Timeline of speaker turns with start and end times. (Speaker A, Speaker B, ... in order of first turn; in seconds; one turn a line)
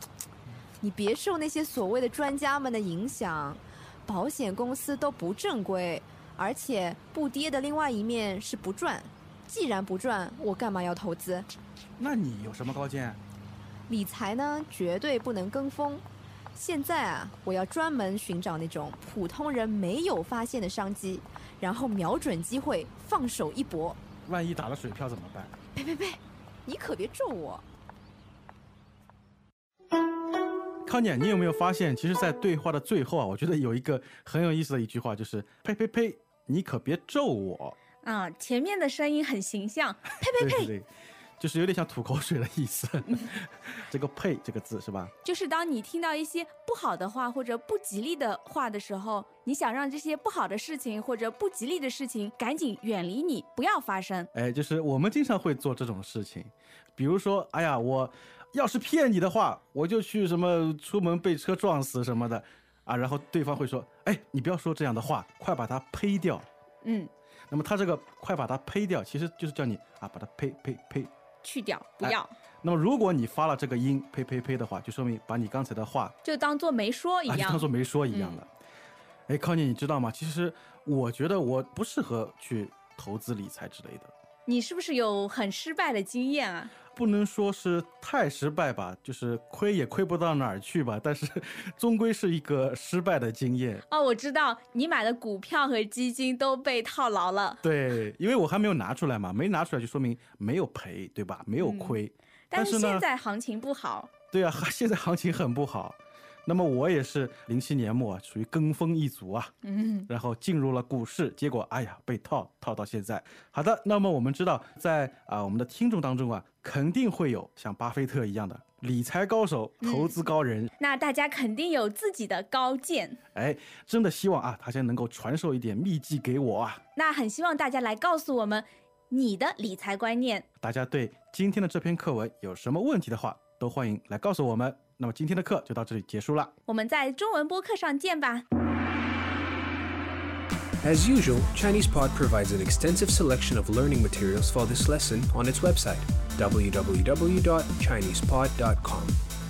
Speaker A: 0.8-11.5
Speaker B: 12.0-13.2
Speaker A: 13.9-16.0
Speaker A: 16.6-24.0
Speaker B: 24.2-25.5
Speaker A: 25.7-27.6
Speaker B: 30.9-37.8
Speaker C: 38.0-40.7
Speaker B: 40.4-45.1
Speaker C: 45.2-54.3
Speaker B: 54.3-66.5
Speaker C: 66.8-67.1
Speaker B: 67.5-71.1
Speaker C: 71.4-72.3
Speaker B: 72.0-76.2
Speaker C: 76.2-78.4
Speaker B: 77.3-78.5
Speaker B: 79.3-84.1
Speaker C: 84.5-86.7
Speaker B: 86.9-93.8
Speaker C: 93.9-97.6
Speaker B: 97.6-103.1
Speaker C: 101.6-102.0
Speaker C: 102.5-104.1
Speaker B: 104.3-109.5
Speaker C: 109.6-110.1
Speaker B: 110.1-120.7
Speaker C: 119.8-120.2
Speaker C: 120.8-123.2
Speaker B: 123.3-126.8
Speaker C: 127.0-130.5
Speaker B: 130.6-136.5
Speaker C: 136.7-138.5
Speaker D: 140.8-149.2